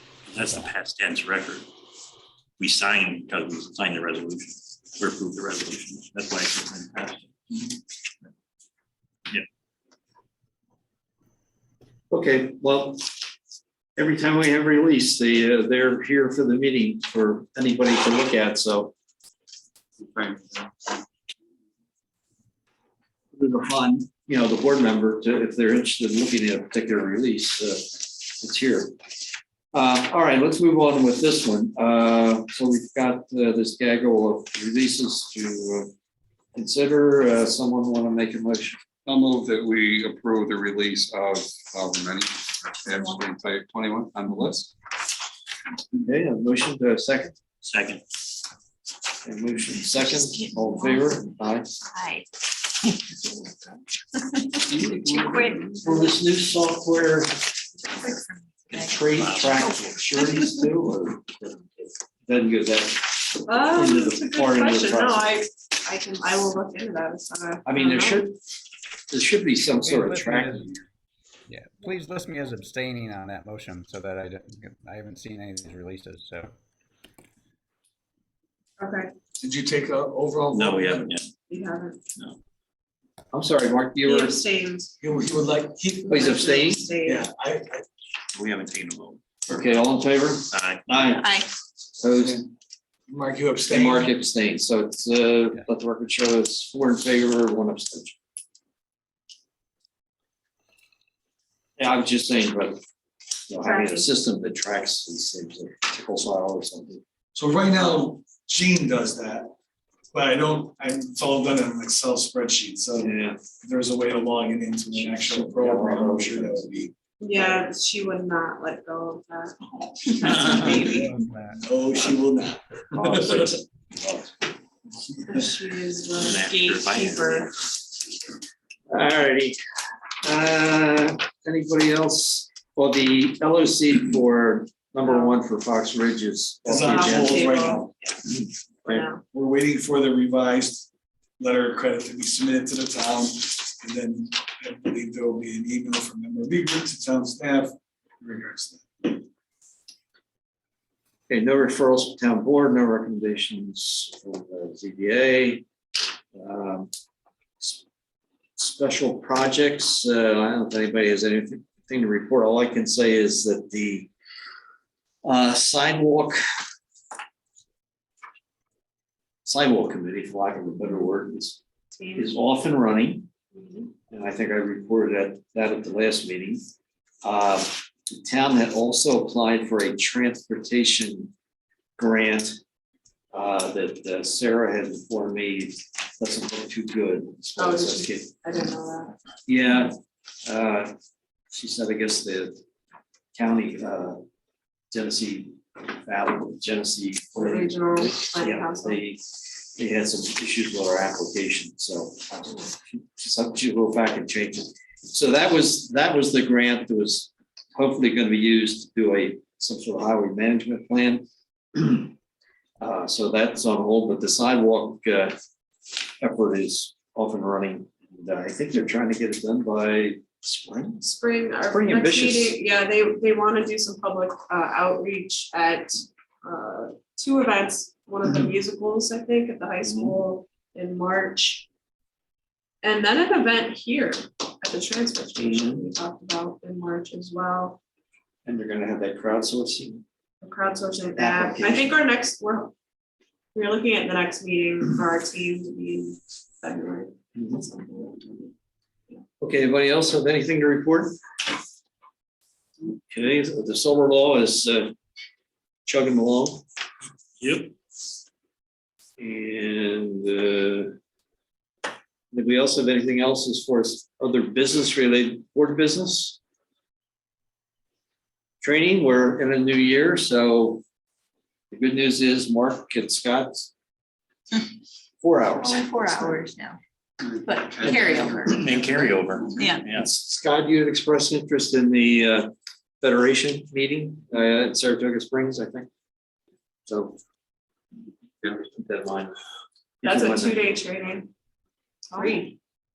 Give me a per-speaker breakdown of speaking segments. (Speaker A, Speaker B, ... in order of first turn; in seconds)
Speaker A: 0.3-1.7, 2.6-7.8, 47.6-48.0, 59.1-59.6, 80.5-81.3, 88.3-89.2, 90.5-91.2, 126.2-127.5, 257.4-257.7, 278.4-280.1
Speaker B: 12.1-13.2, 14.0-18.9, 23.3-28.9, 29.7-35.9, 36.5-38.8, 46.0-47.3, 49.2-51.7, 55.7-57.5, 58.7-65.3, 67.7-68.3, 69.1-70.7, 83.3-84.4, 86.1-86.9, 89.5-91.4, 92.0-92.4, 93.7-98.2, 101.8-102.8, 103.5-107.0, 113.0-113.4, 114.9-116.8, 117.3-117.6, 122.9-124.4, 128.9-129.6, 130.2-137.6, 151.3-155.6, 156.3-156.9, 158.6-164.1, 165.2-166.4, 169.4-171.6, 172.2-173.3, 174.1-176.6, 177.2-181.3, 182.0-182.6, 183.3-188.3, 189.5-190.9, 191.5-192.6, 193.3-194.2, 194.9-212.1, 212.8-215.3, 216.2-221.0, 221.7-222.6, 229.8-230.2, 235.4-235.9, 238.4-240.0, 241.2-242.0, 247.3-247.6, 249.4-251.2, 253.1-254.9, 255.9-256.6, 259.2-261.0, 262.3-266.4, 268.6-270.8, 271.7-273.7, 275.2-276.5, 277.8-279.0, 279.9-285.9, 286.9-287.2, 288.4-289.4, 290.0-290.6
Speaker C: 20.0-21.0, 39.0-44.7, 54.9-55.5, 277.4-278.0
Speaker D: 42.9-43.2, 49.9-51.3, 51.9-52.3, 54.4-56.1, 57.9-59.0, 91.2-91.5, 275.6-276.8, 277.4-278.7, 279.6-279.9, 292.2-292.5
Speaker E: 63.5-68.3, 78.8-79.1, 81.5-82.0, 84.0-84.9, 86.0-87.3, 103.6-104.1, 117.2-121.2, 125.3-127.5, 135.0-135.3, 136.8-138.2, 138.8-139.2, 171.9-172.3, 173.5-173.9, 187.6-189.2, 197.3-199.0, 221.0-231.7, 232.8-237.8, 240.4-242.7, 243.6-248.5, 290.0-291.3, 292.1-292.5
Speaker F: 69.8-70.8, 71.5-76.5, 120.5-121.6
Speaker G: 79.4-81.1, 85.0-86.1, 87.0-87.8, 92.1-92.5, 93.1-94.1, 107.3-109.5, 110.1-116.9, 120.8-123.6, 136.6-137.9, 139.3-140.9, 141.4-149.2